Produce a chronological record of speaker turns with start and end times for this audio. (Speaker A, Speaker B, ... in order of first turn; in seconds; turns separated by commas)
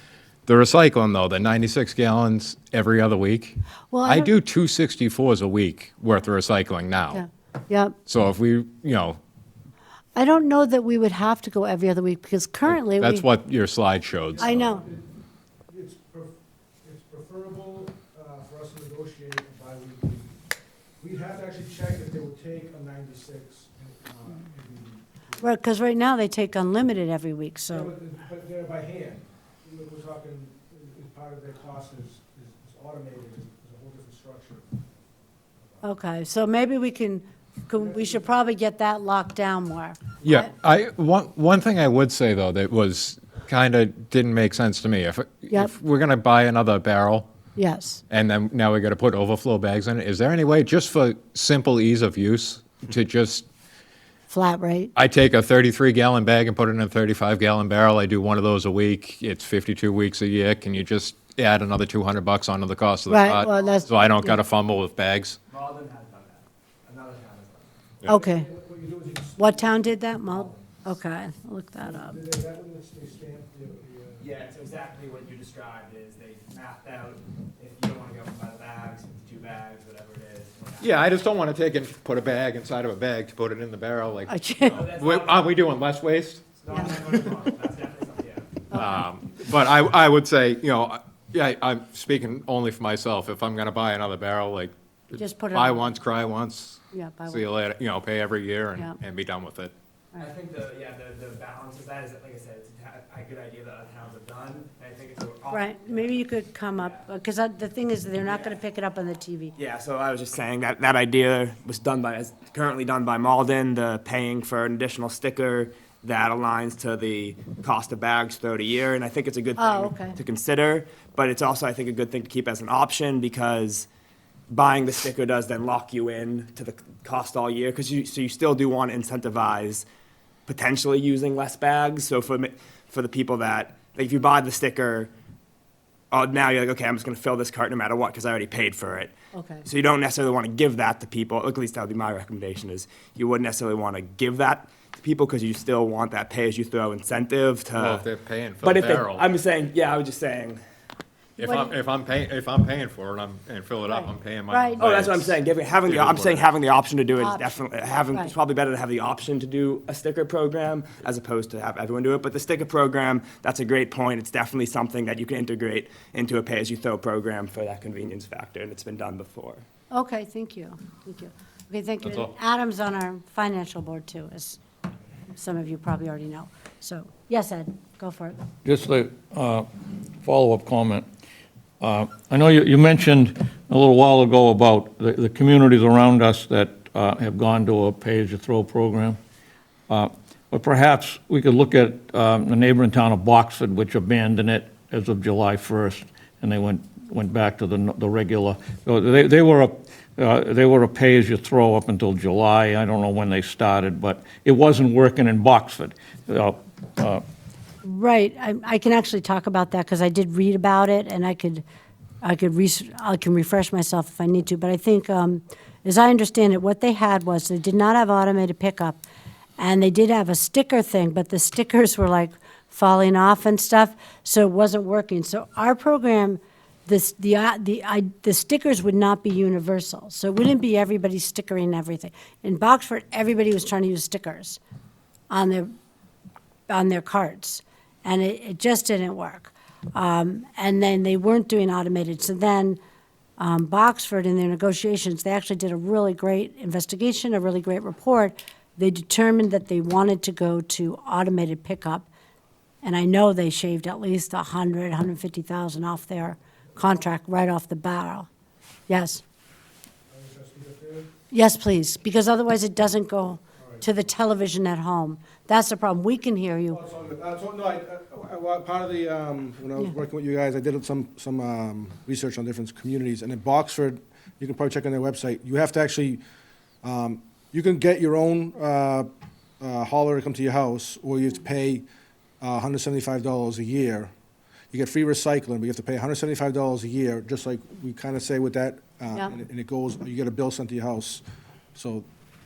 Speaker A: 0.5-7.2, Speaker B: 3.9-4.3, Speaker B: 7.1-8.0, Speaker A: 8.1-9.2, Speaker B: 10.2-13.2, Speaker A: 12.7-14.8, Speaker C: 14.4-15.1, Speaker B: 14.4-14.8, Speaker C: 15.7-20.3, Speaker C: 21.0-25.5, Speaker B: 25.4-27.9, Speaker C: 27.7-34.9, Speaker B: 35.8-40.5, Speaker C: 37.8-38.2, Speaker A: 40.2-47.2, Speaker B: 47.6-48.0, Speaker A: 48.1-53.5, Speaker B: 54.3-54.9, Speaker A: 55.0-65.4, Speaker B: 63.1-64.4, Speaker D: 63.6-64.1, Speaker D: 65.5-67.7, Speaker B: 68.1-68.5, Speaker C: 68.1-70.6, Speaker B: 69.4-72.2, Speaker C: 71.8-74.3, Speaker D: 74.2-81.1, Speaker A: 80.8-86.4, Speaker B: 84.3-84.8, Speaker D: 84.7-85.7, Speaker D: 86.6-88.6, Speaker B: 88.7-89.0, Speaker A: 88.7-99.7, Speaker B: 95.1-95.8, Speaker B: 96.9-97.5, Speaker D: 100.2-107.0, Speaker B: 105.5-109.5, Speaker D: 108.2-108.6, Speaker D: 109.6-123.9, Speaker B: 119.6-120.2, Speaker D: 124.5-129.9, Speaker D: 130.5-135.1, Speaker D: 136.1-148.0, Speaker B: 139.3-139.7, Speaker A: 147.8-149.2, Speaker D: 148.6-150.6, Speaker A: 151.4-156.5, Speaker B: 151.4-151.7, Speaker B: 153.8-154.8, Speaker D: 154.8-169.6, Speaker B: 157.2-157.4, Speaker B: 169.9-174.6, Speaker B: 175.3-178.4, Speaker E: 178.6-179.7, Speaker E: 180.2-181.1, Speaker E: 181.8-189.2, Speaker E: 189.9-207.2, Speaker B: 207.8-211.6, Speaker B: 212.2-219.0, Speaker B: 219.6-234.6, Speaker B: 235.3-235.7, Speaker B: 236.7-242.8, Speaker B: 243.4-252.1, Speaker B: 252.8-258.3, Speaker B: 258.9-259.2, Speaker C: 260.1-261.1, Speaker B: 261.3-266.8, Speaker C: 263.6-263.8, Speaker C: 266.7-276.2, Speaker C: 276.8-281.9, Speaker C: 282.4-284.1, Speaker C: 284.7-291.2, Speaker C: 291.8-292.1